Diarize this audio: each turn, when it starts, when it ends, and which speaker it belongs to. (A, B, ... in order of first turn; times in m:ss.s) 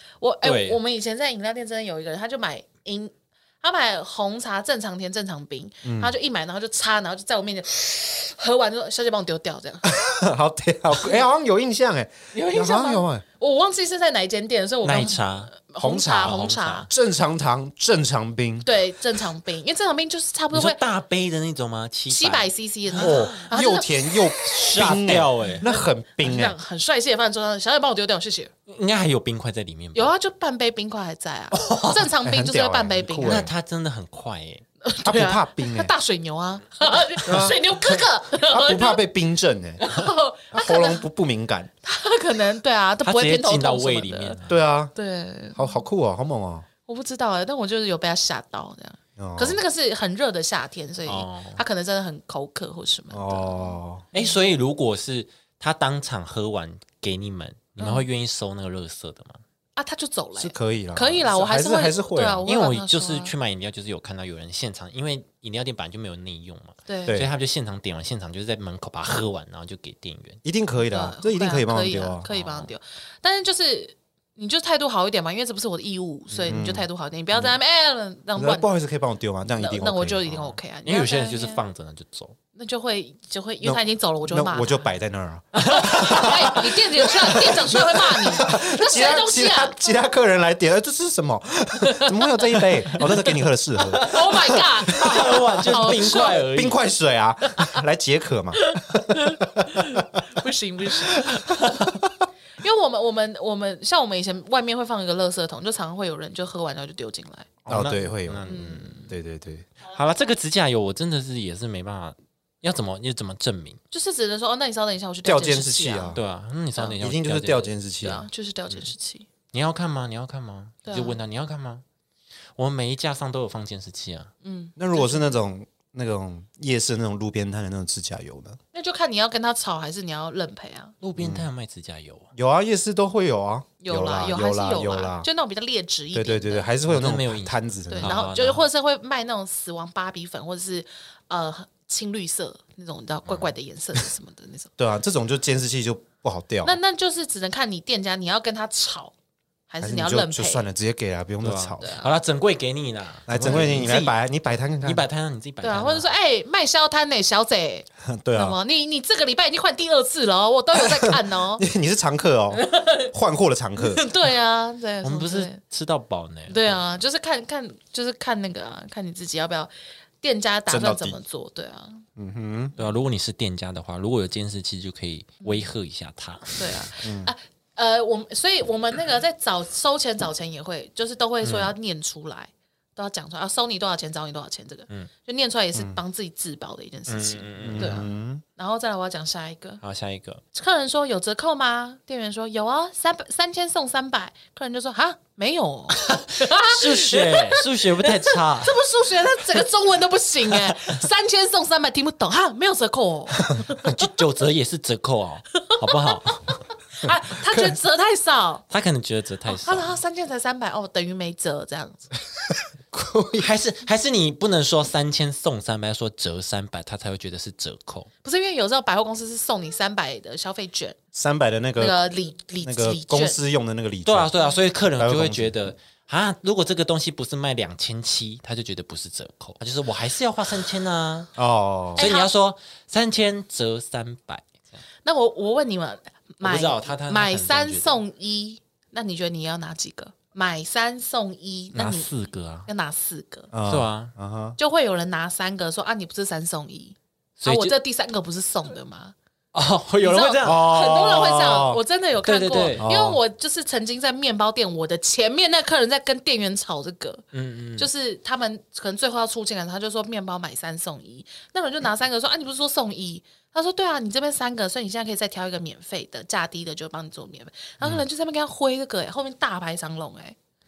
0:00.2-0:09.9 A
0:00.4-0:00.8 B
0:05.8-0:06.1 C
0:09.8-0:13.2 C
0:12.3-0:16.9 A
0:14.8-0:15.6 B
0:15.8-0:18.7 C
0:16.2-0:16.9 B
0:18.6-0:20.8 A
0:20.5-0:23.5 B
0:22.1-0:24.4 A
0:23.0-0:26.6 C
0:24.4-0:25.6 B
0:25.6-0:28.5 A
0:28.7-0:30.1 B
0:29.9-0:33.5 A
0:31.5-0:32.1 B
0:32.2-0:33.5 C
0:33.2-0:34.6 B
0:34.8-0:39.0 A
0:35.0-0:35.9 C
0:37.2-0:39.8 C
0:39.8-0:41.0 A
0:40.5-0:41.7 C
0:41.8-0:44.4 A
0:43.0-0:44.6 B
0:44.5-0:44.9 C
0:44.9-0:45.8 A
0:45.5-0:46.6 C
0:46.9-0:54.3 A
0:49.2-0:49.6 C
0:51.0-0:51.6 B
0:53.1-0:54.0 C
0:54.1-0:59.4 B
0:57.8-0:58.0 A
0:59.8-1:03.3 A
1:00.4-1:02.5 C
1:02.4-1:10.4 B
1:06.9-1:07.2 A
1:10.4-1:12.3 C
1:10.7-1:18.7 A
1:12.3-1:12.7 B
1:16.3-1:17.5 C
1:18.4-1:20.6 C
1:19.6-1:21.6 A
1:20.8-1:22.3 B
1:22.5-1:24.8 A
1:23.6-1:40.0 C
1:25.6-1:29.9 A
1:25.6-1:26.5 B
1:31.8-1:32.3 A
1:34.0-1:36.4 A
1:34.9-1:36.8 B
1:37.5-1:37.8 A
1:38.6-1:41.3 A
1:41.2-1:42.0 C
1:41.4-1:41.8 B
1:42.6-1:47.5 A
1:47.6-1:49.1 B
1:47.7-1:49.6 C
1:48.5-1:49.1 A
1:49.8-1:53.8 B
1:53.9-1:56.2 A
1:55.2-1:56.2 C
1:56.1-1:57.7 B
1:57.0-1:58.2 C
1:58.0-1:59.3 A
1:59.5-2:01.8 B
2:00.8-2:01.2 A
2:02.6-2:04.3 B
2:04.4-2:05.3 A
2:04.8-2:08.6 C
2:08.7-2:10.9 A
2:11.0-2:12.3 B
2:11.2-2:11.5 C
2:12.3-2:15.3 C
2:13.8-2:16.7 A
2:16.1-2:18.3 C
2:16.9-2:18.7 B
2:17.9-2:24.7 A
2:24.8-2:26.8 C
2:26.6-2:29.1 A
2:29.7-2:30.7 A
2:29.8-2:32.0 C
2:31.4-2:34.2 B
2:31.8-2:32.1 A
2:33.3-2:35.1 C
2:33.4-2:33.7 A
2:34.7-2:36.0 B
2:35.6-2:41.6 A
2:38.0-2:38.6 C
2:40.7-2:44.0 C
2:42.5-2:43.1 A
2:43.8-2:45.6 A
2:45.0-2:46.8 B
2:46.5-2:52.0 A
2:50.7-2:51.2 C
2:52.2-2:52.8 C
2:52.8-2:56.9 B
2:55.4-2:55.7 A
2:56.6-3:09.8 A
2:57.0-2:57.3 C
3:01.4-3:01.7 B
3:07.1-3:08.0 B
3:07.6-3:08.4 C
3:09.8-3:10.4 B
3:10.5-3:23.9 A
3:16.0-3:18.8 B
3:23.8-3:26.6 B
3:25.6-3:28.6 A
3:27.0-3:27.8 C
3:28.7-3:30.0 B
3:29.5-3:32.1 A
3:32.9-3:33.5 C
3:33.4-3:38.1 B
3:38.2-3:41.0 A
3:41.1-3:42.0 C
3:41.8-3:43.4 A
3:42.6-3:44.3 C
3:44.0-3:51.3 B
3:45.0-3:45.6 C
3:51.4-3:52.1 C
3:52.0-3:54.8 B
3:52.0-3:52.3 A
3:55.0-4:02.1 A
3:56.4-3:58.0 B
4:01.7-4:02.7 B
4:02.6-4:03.5 A
4:03.5-4:04.6 C
4:03.6-4:04.1 B
4:04.6-4:09.1 A
4:07.4-4:07.7 B
4:09.5-4:10.7 B
4:10.0-4:17.2 A
4:10.4-4:11.8 C
4:12.2-4:12.8 B
4:12.7-4:13.2 C
4:17.3-4:17.9 B
4:17.8-4:30.4 A